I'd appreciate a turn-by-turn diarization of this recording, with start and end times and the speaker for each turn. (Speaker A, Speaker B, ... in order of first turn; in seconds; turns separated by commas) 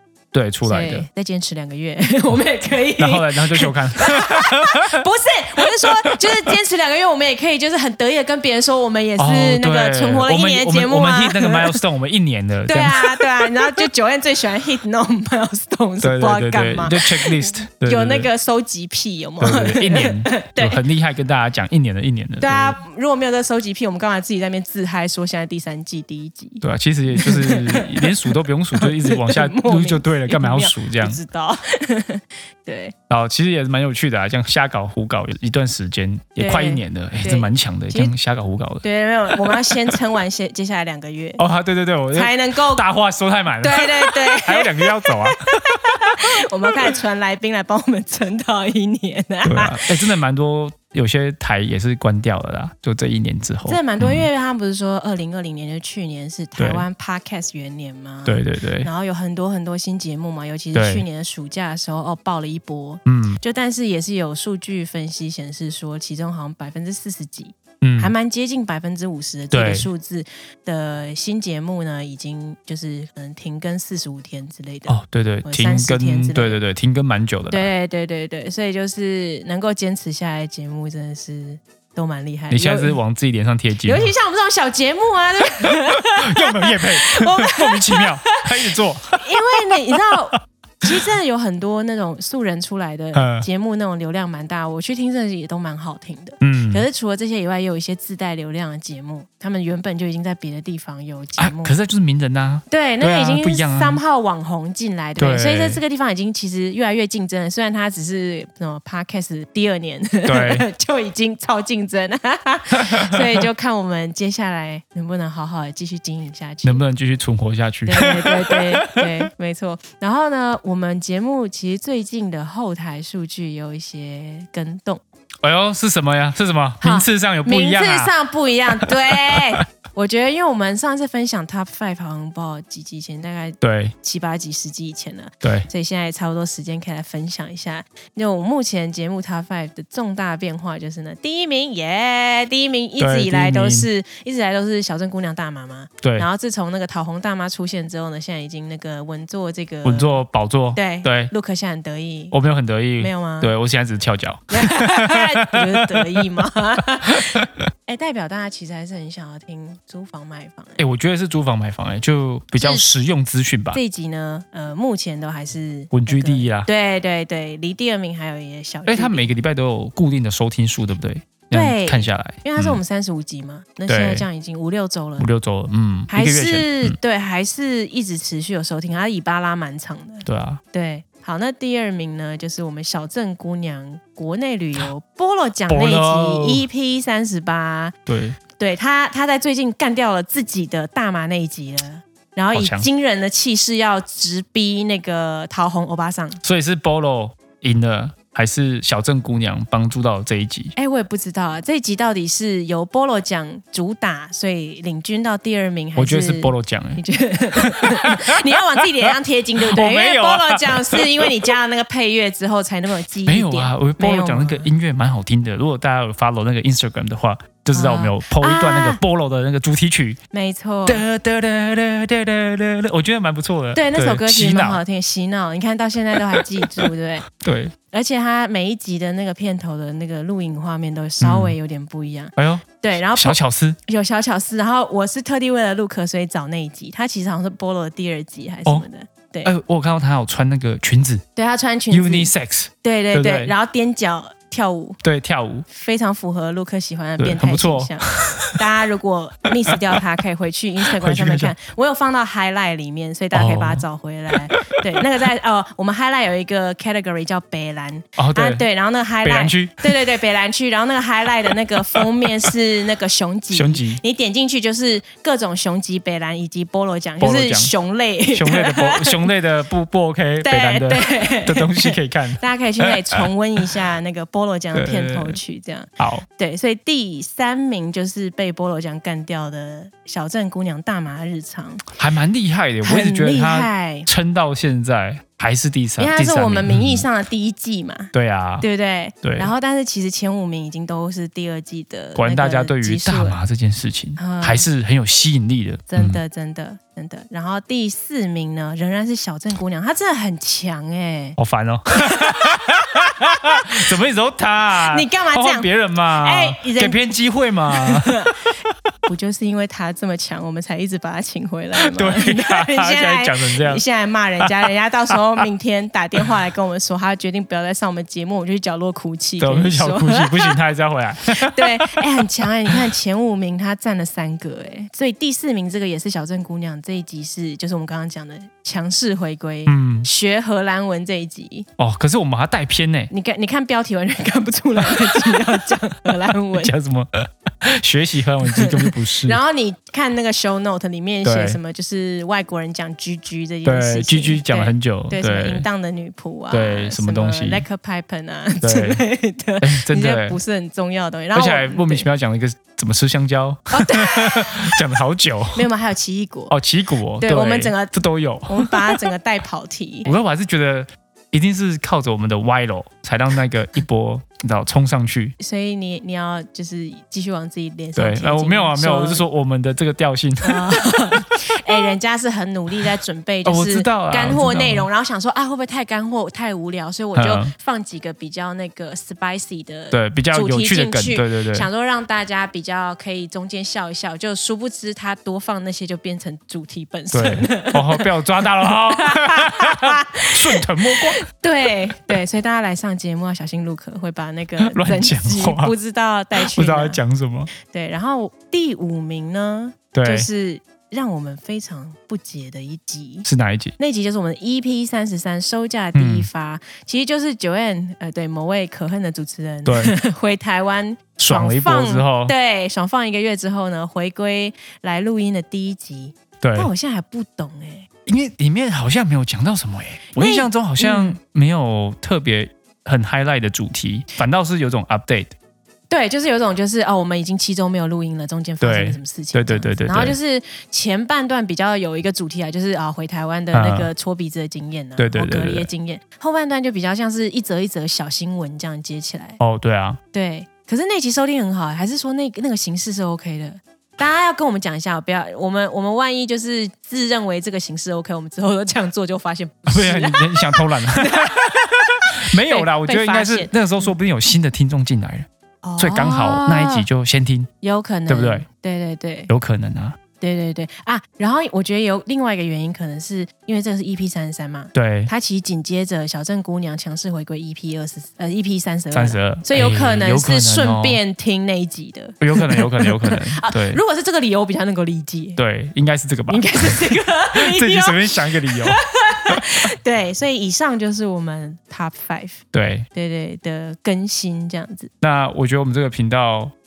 Speaker A: 0.3-1.1, Speaker B: 0.6-11.8, Speaker A: 3.0-5.0, Speaker A: 5.6-6.6, Speaker A: 9.2-13.9, Speaker B: 12.7-20.8, Speaker A: 16.0-18.3, Speaker A: 19.4-22.8, Speaker B: 22.4-32.9, Speaker A: 26.6-31.2, Speaker A: 33.1-39.9, Speaker B: 36.4-38.1, Speaker B: 38.8-41.4, Speaker A: 41.4-46.2, Speaker B: 42.1-42.9, Speaker B: 43.6-49.9, Speaker A: 49.4-54.3, Speaker B: 53.6-76.6, Speaker A: 56.6-56.8, Speaker A: 58.2-58.9, Speaker A: 60.7-61.0, Speaker A: 63.0-63.4, Speaker A: 67.8-68.1, Speaker A: 69.5-69.9, Speaker A: 74.9-77.7, Speaker B: 77.5-83.0, Speaker A: 82.5-84.1, Speaker B: 83.8-101.7, Speaker A: 85.6-91.0, Speaker A: 93.1-93.5, Speaker A: 96.4-96.8, Speaker A: 101.4-104.0, Speaker B: 102.7-116.8, Speaker A: 105.2-105.8, Speaker A: 110.2-110.7, Speaker A: 112.8-113.2, Speaker A: 116.6-119.1, Speaker B: 117.9-125.0, Speaker A: 125.4-128.1, Speaker B: 126.8-150.2, Speaker A: 128.8-129.6, Speaker A: 133.6-133.9, Speaker A: 135.4-135.7, Speaker A: 143.0-143.9, Speaker A: 146.0-146.3, Speaker A: 149.8-151.3, Speaker B: 150.7-152.3, Speaker A: 152.3-156.3, Speaker B: 153.0-153.5, Speaker B: 154.5-160.8, Speaker A: 157.1-157.7, Speaker A: 160.8-163.8, Speaker B: 162.6-162.8, Speaker B: 163.7-169.3, Speaker A: 165.9-166.7, Speaker A: 168.8-172.8, Speaker B: 171.5-175.3, Speaker A: 173.9-174.3, Speaker A: 175.2-176.9, Speaker B: 176.1-187.9, Speaker A: 180.2-180.6, Speaker A: 185.7-186.7, Speaker A: 188.1-188.4, Speaker B: 188.6-196.4, Speaker A: 192.5-192.9, Speaker A: 196.4-200.7, Speaker B: 200.8-214.7, Speaker A: 206.0-207.0, Speaker A: 207.5-211.5, Speaker A: 213.2-220.2, Speaker B: 217.7-219.0, Speaker B: 220.3-221.0, Speaker A: 220.8-224.8, Speaker B: 223.7-227.3, Speaker A: 226.2-227.7, Speaker B: 227.9-239.5, Speaker A: 231.2-231.5, Speaker A: 232.3-233.8, Speaker A: 239.4-241.2, Speaker B: 241.3-242.3, Speaker A: 241.9-243.5, Speaker B: 242.8-245.0, Speaker A: 245.0-245.7, Speaker B: 245.7-269.3, Speaker A: 247.2-248.6, Speaker A: 249.7-250.0, Speaker A: 250.8-251.5, Speaker A: 253.3-255.0, Speaker A: 258.2-258.6, Speaker A: 259.2-260.0, Speaker A: 261.9-262.5, Speaker A: 263.5-264.0, Speaker A: 267.2-267.7, Speaker A: 268.3-273.3, Speaker B: 270.4-281.9, Speaker A: 274.7-275.4, Speaker A: 276.0-276.2, Speaker A: 281.9-287.1, Speaker B: 282.8-284.1, Speaker B: 286.0-293.4, Speaker A: 288.1-288.6, Speaker A: 289.2-289.5, Speaker A: 292.1-296.2, Speaker B: 294.2-294.6, Speaker B: 295.9-301.4, Speaker A: 301.4-308.2, Speaker B: 301.9-303.7, Speaker B: 304.9-307.0, Speaker B: 307.7-308.4, Speaker B: 309.1-320.6, Speaker A: 311.8-313.8, Speaker A: 314.4-315.1, Speaker A: 319.4-322.8, Speaker B: 321.3-331.7, Speaker A: 329.6-330.1, Speaker A: 331.8-333.1, Speaker B: 333.1-336.7, Speaker A: 334.8-335.4, Speaker A: 336.5-339.4, Speaker B: 338.4-352.1, Speaker A: 341.2-341.6, Speaker A: 343.6-345.6, Speaker A: 346.5-347.6, Speaker A: 348.6-349.0, Speaker A: 349.6-350.4, Speaker A: 351.3-355.7, Speaker B: 353.7-354.8, Speaker B: 355.5-356.5, Speaker A: 356.5-359.1, Speaker B: 357.2-357.9, Speaker B: 358.5-360.1, Speaker A: 360.0-365.3, Speaker B: 365.4-369.2, Speaker A: 367.9-371.3, Speaker B: 370.4-397.0, Speaker A: 373.4-374.9, Speaker A: 377.1-377.5, Speaker A: 379.9-381.7, Speaker A: 387.1-391.2, Speaker A: 394.6-395.7, Speaker A: 396.3-397.5, Speaker B: 397.5-417.9, Speaker A: 399.9-400.3, Speaker A: 403.2-403.7, Speaker A: 405.9-406.3, Speaker A: 409.6-409.9, Speaker A: 411.2-412.3, Speaker A: 416.4-416.7, Speaker A: 418.1-425.3, Speaker B: 420.1-421.2, Speaker B: 425.9-439.4, Speaker A: 428.6-430.2, Speaker A: 433.5-433.9, Speaker A: 435.0-435.7, Speaker A: 439.4-440.0, Speaker B: 440.1-453.9, Speaker A: 449.7-455.3, Speaker B: 455.6-456.9, Speaker A: 455.8-457.5, Speaker B: 457.6-459.3, Speaker A: 458.1-458.4, Speaker A: 459.3-460.0, Speaker B: 460.2-475.4, Speaker A: 464.7-465.1, Speaker A: 468.9-471.0, Speaker A: 472.2-473.8, Speaker A: 475.4-479.6, Speaker B: 476.3-482.4, Speaker A: 482.5-482.9, Speaker B: 482.9-484.9, Speaker A: 485.0-486.5